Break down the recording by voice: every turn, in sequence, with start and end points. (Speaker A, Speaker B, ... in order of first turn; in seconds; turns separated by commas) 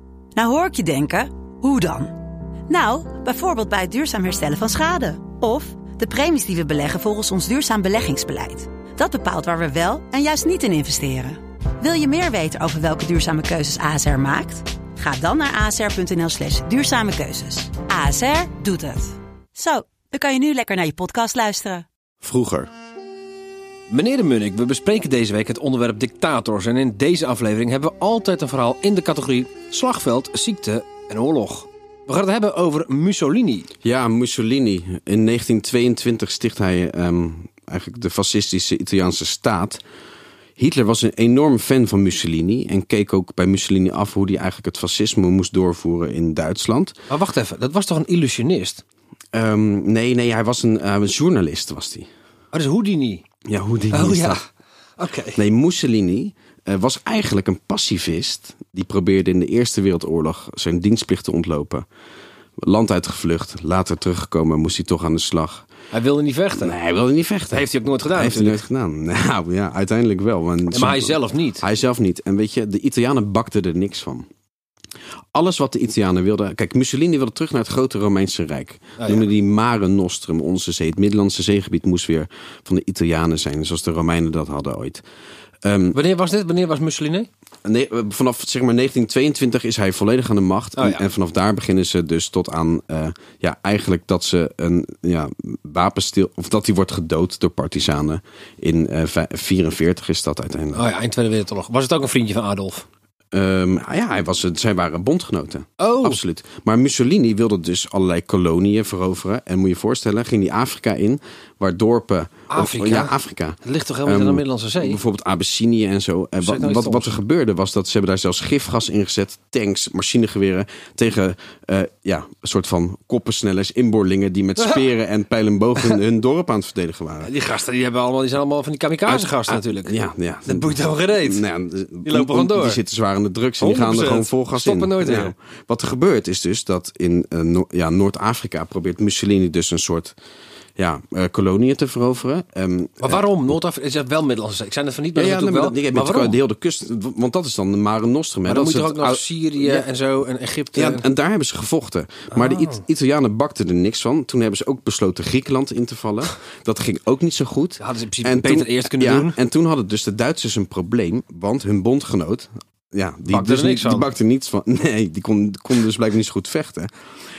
Speaker A: 0.3-2.2, Speaker A: 2.7-21.9, Speaker B: 22.2-22.7, Speaker C: 23.9-33.7, Speaker B: 33.8-39.8, Speaker B: 40.6-47.0, Speaker C: 47.1-48.8, Speaker B: 49.3-52.1, Speaker C: 52.5-53.2, Speaker B: 53.5-54.4, Speaker C: 53.9-54.5, Speaker C: 55.0-55.4, Speaker B: 55.4-61.9, Speaker B: 62.6-65.7, Speaker C: 65.9-66.8, Speaker B: 66.6-74.3, Speaker C: 67.5-68.7, Speaker C: 70.7-71.6, Speaker B: 75.3-85.0, Speaker C: 79.0-79.3, Speaker B: 85.6-86.0, Speaker C: 85.9-87.3, Speaker B: 87.7-100.9, Speaker C: 90.8-91.0, Speaker C: 100.8-102.9, Speaker B: 103.3-127.3, Speaker C: 105.8-106.2, Speaker C: 112.5-115.0, Speaker C: 116.4-117.2, Speaker C: 127.2-131.5, Speaker B: 129.1-140.2, Speaker C: 132.0-132.8, Speaker C: 133.6-135.3, Speaker B: 140.8-143.3, Speaker C: 143.0-146.4, Speaker B: 145.2-149.9, Speaker C: 148.5-151.1, Speaker B: 150.8-166.9, Speaker C: 152.3-152.8, Speaker C: 157.8-159.4, Speaker C: 163.3-164.1